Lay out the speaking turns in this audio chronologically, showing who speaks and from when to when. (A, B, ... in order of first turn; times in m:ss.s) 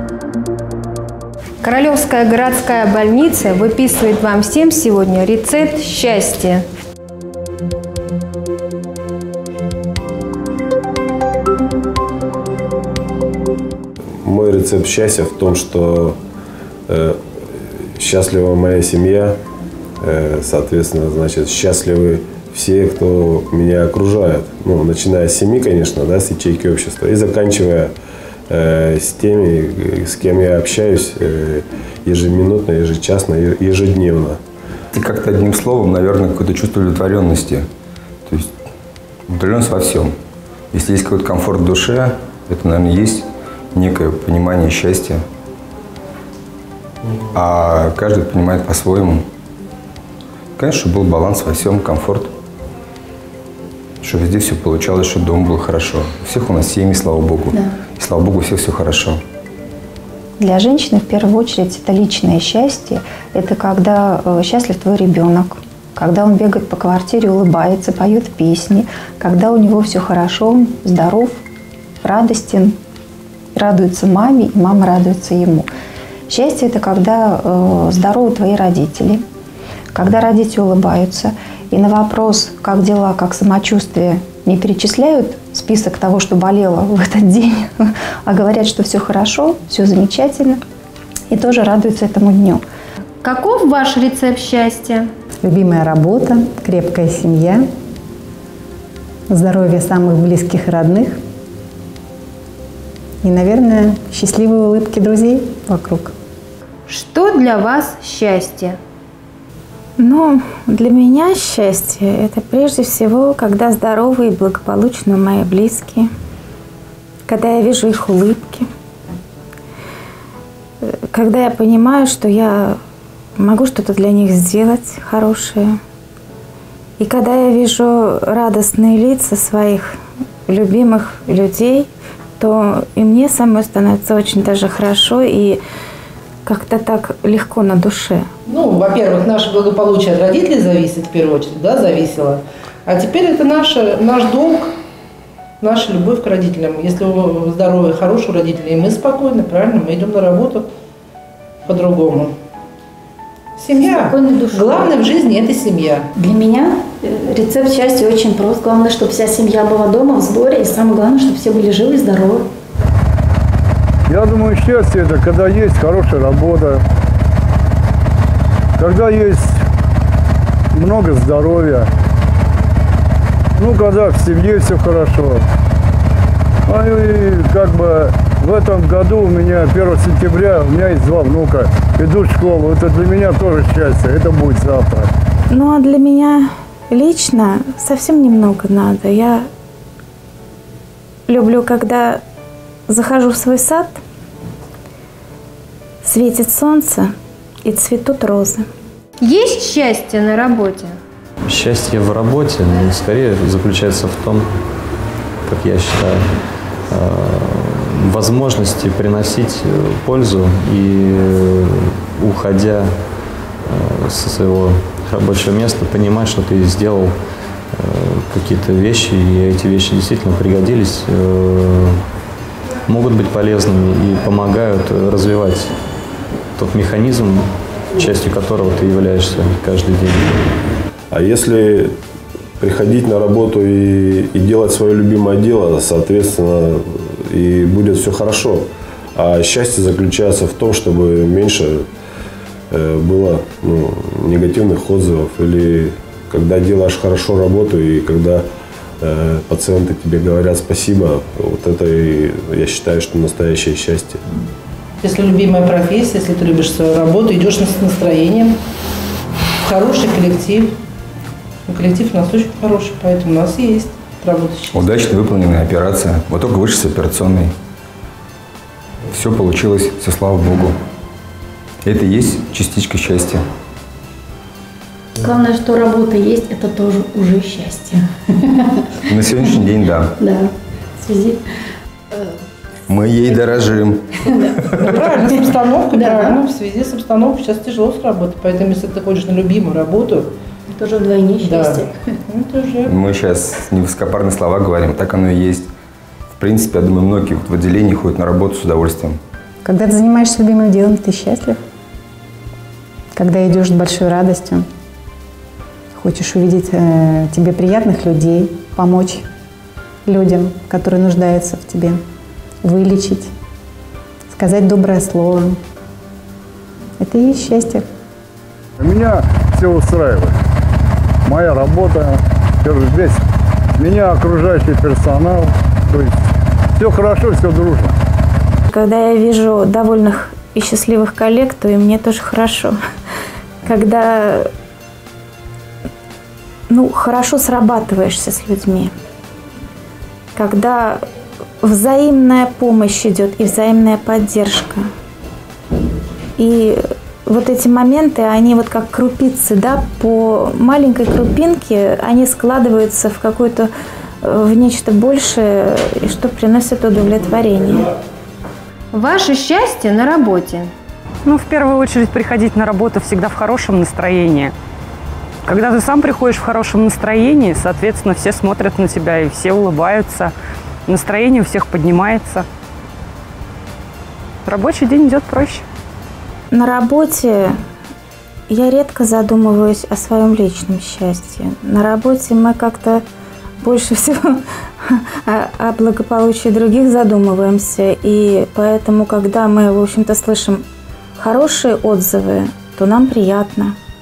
0:01.6-0:06.6 A
0:14.2-0:16.2 B
0:16.9-0:17.2 B
0:18.0-0:19.4 B
0:20.0-0:27.9 B
0:28.5-0:34.4 B
0:34.9-0:37.7 C
0:39.3-0:40.1 C
0:40.7-0:45.2 C
0:47.3-0:49.2 C
0:50.6-0:52.3 C
0:54.0-0:59.2 C
1:00.4-1:11.4 D
1:12.0-1:12.8 D
1:13.6-1:15.7 D
1:16.3-1:19.2 D
1:19.9-1:30.6 D
1:31.3-1:32.6 D
1:33.2-1:35.1 A
1:35.4-1:37.7 E
1:39.3-1:41.2 E
1:43.2-1:46.1 E
1:46.9-1:48.8 A
1:50.0-1:56.1 F
1:57.3-1:58.7 F
2:00.9-2:02.8 F
2:03.4-2:05.8 F
2:07.0-2:15.6 F
2:16.4-2:18.3 F
2:18.5-2:24.7 G
2:25.6-2:30.7 G
2:31.7-2:32.3 G
2:33.6-2:36.1 G
2:34.1-2:34.6 H
2:36.2-2:42.5 H
2:44.1-2:46.8 I
2:48.8-2:49.6 I
2:50.7-2:51.9 I
2:53.6-2:55.4 I
2:56.7-3:05.1 I
3:05.5-3:09.5 F
3:11.3-3:12.2 F
3:12.9-3:14.0 F
3:16.0-3:17.1 F
3:17.6-3:18.6 F
3:19.2-3:21.0 A
3:21.4-3:24.5 J
3:25.5-3:26.3 J
3:26.9-3:33.0 J
3:33.7-3:37.2 J
3:37.8-3:42.0 J
3:42.9-3:45.7 J
3:46.6-3:50.4 J
3:51.1-3:51.9 B
3:52.6-4:01.9 B
4:02.7-4:08.5 B
4:09.0-4:14.2 B
4:15.0-4:18.6 G
4:19.6-4:20.8 G
4:21.7-4:25.0 G
4:24.7-4:27.6 C
4:29.1-4:30.8 C
4:31.8-4:33.4 C
4:35.2-4:38.1 H
4:39.1-4:40.2 C
4:40.2-4:41.4 H
4:42.9-4:45.0 C
4:45.0-4:50.3 G
4:45.9-4:46.3 H
4:50.8-4:51.9 H
4:51.4-4:52.9 G
4:52.9-4:55.7 C
4:56.3-4:59.2 C
4:59.6-5:01.6 E
5:03.1-5:04.7 E
5:06.0-5:09.2 E
5:10.1-5:12.0 E
5:12.6-5:13.3 E
5:14.3-5:15.6 E
5:17.0-5:17.9 E
5:18.8-5:20.4 I
5:21.2-5:23.2 I
5:23.8-5:26.1 I
5:26.8-5:27.9 I
5:28.7-5:32.8 F
5:33.6-5:34.5 F
5:36.7-5:38.9 F
5:40.4-5:41.0 F
5:41.6-5:44.9 F
5:46.4-5:53.7 F
5:54.2-5:57.9 F
5:58.9-6:00.7 A
6:01.2-6:04.5 K
6:05.4-6:10.3 K
6:10.9-6:12.5 K
6:14.5-6:15.6 K
6:16.5-6:17.6 F
6:18.5-6:23.0 F
6:23.6-6:30.6 F
6:31.2-6:33.8 F